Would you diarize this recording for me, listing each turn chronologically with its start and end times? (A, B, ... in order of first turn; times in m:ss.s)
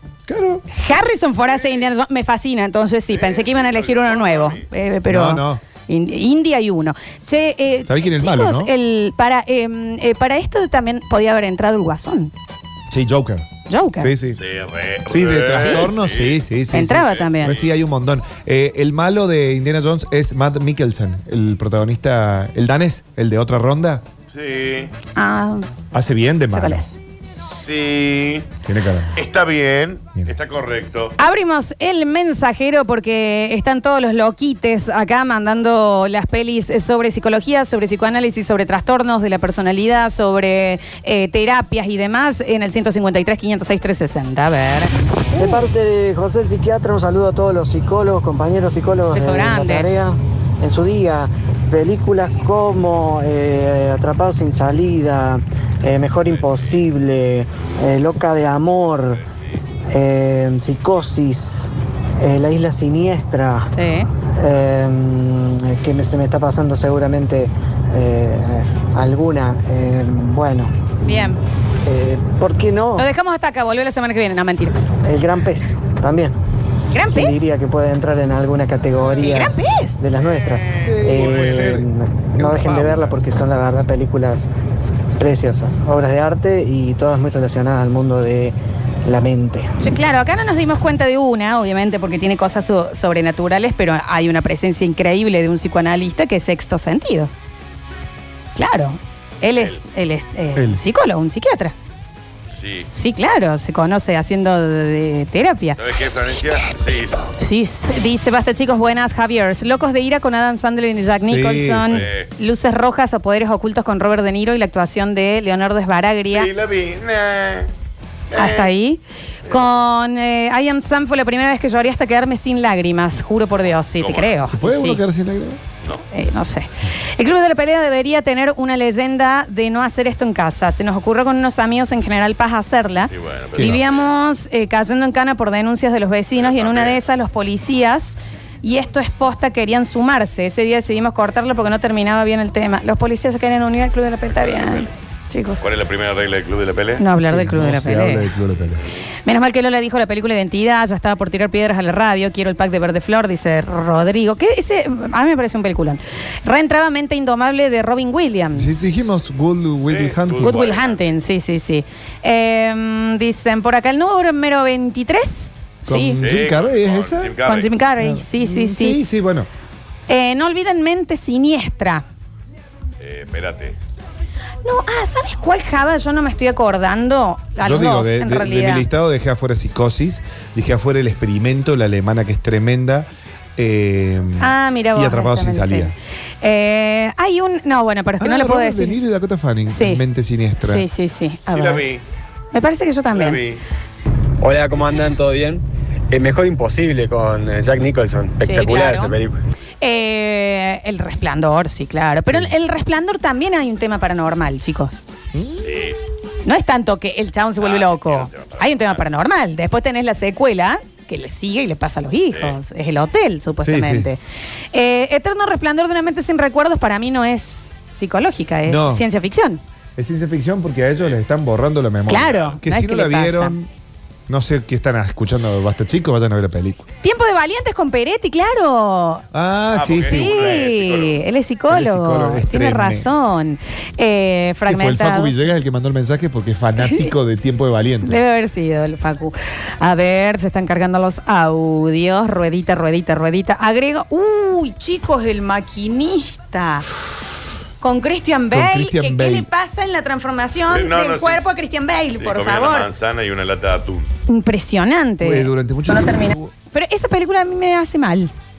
0:00.3-0:00.6 A
0:00.7-0:12.3 B
0:01.6-0:01.8 C
0:03.1-0:04.6 C
0:05.1-0:05.6 A
0:07.9-0:08.7 A
0:12.9-0:13.5 A
0:13.7-0:14.1 B
0:14.0-0:14.4 A
0:14.4-0:16.4 C
0:15.1-0:24.0 A
0:15.6-0:15.8 B
0:16.7-0:17.6 B
0:24.3-0:24.9 C
0:25.2-0:25.6 B
0:25.9-0:26.9 A
0:26.5-0:26.9 B
0:27.4-0:28.5 C
0:28.7-0:29.2 A
0:29.2-0:31.2 C
0:31.2-0:45.6 B
0:45.4-0:59.2 D
0:49.1-0:49.9 B
0:56.3-0:56.8 C
0:59.9-1:03.7 D
1:03.7-1:04.1 B
1:04.4-1:10.7 D
1:11.0-1:11.4 B
1:11.8-1:13.1 D
1:13.0-1:14.8 B
1:15.0-1:16.4 D
1:16.9-1:17.4 B
1:17.1-1:24.5 D
1:19.2-1:20.0 B
1:20.7-1:23.2 A
1:21.2-1:21.6 C
1:25.2-1:29.7 D
1:29.8-1:37.3 B
1:38.6-1:41.7 B
1:40.6-1:40.8 A
1:42.5-1:42.9 C
1:42.9-1:45.8 B
1:45.8-1:47.3 C
1:47.4-1:56.5 B
1:51.2-1:52.0 A
1:51.9-1:52.3 C
1:56.3-1:57.7 C
1:58.3-1:58.7 C
1:58.4-2:05.0 B
1:59.5-1:59.8 C
2:04.0-2:04.4 C
2:04.5-2:05.6 A
2:06.1-2:25.6 B
2:13.1-2:14.1 C
2:13.6-2:13.8 A
2:16.4-2:17.0 C
2:24.3-2:24.9 C
2:25.6-2:27.0 C
2:27.0-2:28.3 B
2:27.3-2:28.8 A
2:29.3-2:38.9 B
2:38.6-2:40.6 A
2:39.8-2:41.0 C
2:40.4-2:46.2 B
2:45.9-2:47.3 A
2:46.2-2:47.7 C
2:47.5-2:49.0 B
2:48.0-2:49.5 A
2:50.1-2:52.0 B
2:53.0-2:53.8 C
2:54.6-2:58.9 B
2:57.6-3:05.9 A
3:04.4-3:09.0 B
3:08.2-3:10.8 A
3:09.7-3:10.0 B
3:10.6-3:11.8 B
3:11.5-3:12.0 C
3:12.5-3:13.4 B
3:13.1-3:13.6 C
3:14.4-3:15.6 E
3:16.1-3:19.3 E
3:18.4-3:19.2 B
3:19.8-3:24.9 B
3:25.3-3:25.6 A
3:25.6-3:26.0 C
3:26.4-3:34.2 B
3:27.6-3:29.0 C
3:33.6-3:34.1 A
3:34.7-3:39.6 B
3:38.7-3:39.0 A
3:40.0-3:43.7 A
3:42.1-3:43.5 B
3:44.3-3:46.8 A
3:47.0-3:49.2 B
3:49.3-3:50.3 A
3:49.7-3:51.2 C
3:50.0-3:55.5 B
3:51.7-3:53.1 A
3:54.7-3:58.2 A
3:56.8-3:57.1 B
3:58.0-4:06.9 B
4:07.8-4:12.9 B
4:08.5-4:09.5 A
4:10.7-4:11.5 C
4:12.2-4:14.1 C
4:14.3-4:18.3 B
4:15.2-4:16.5 A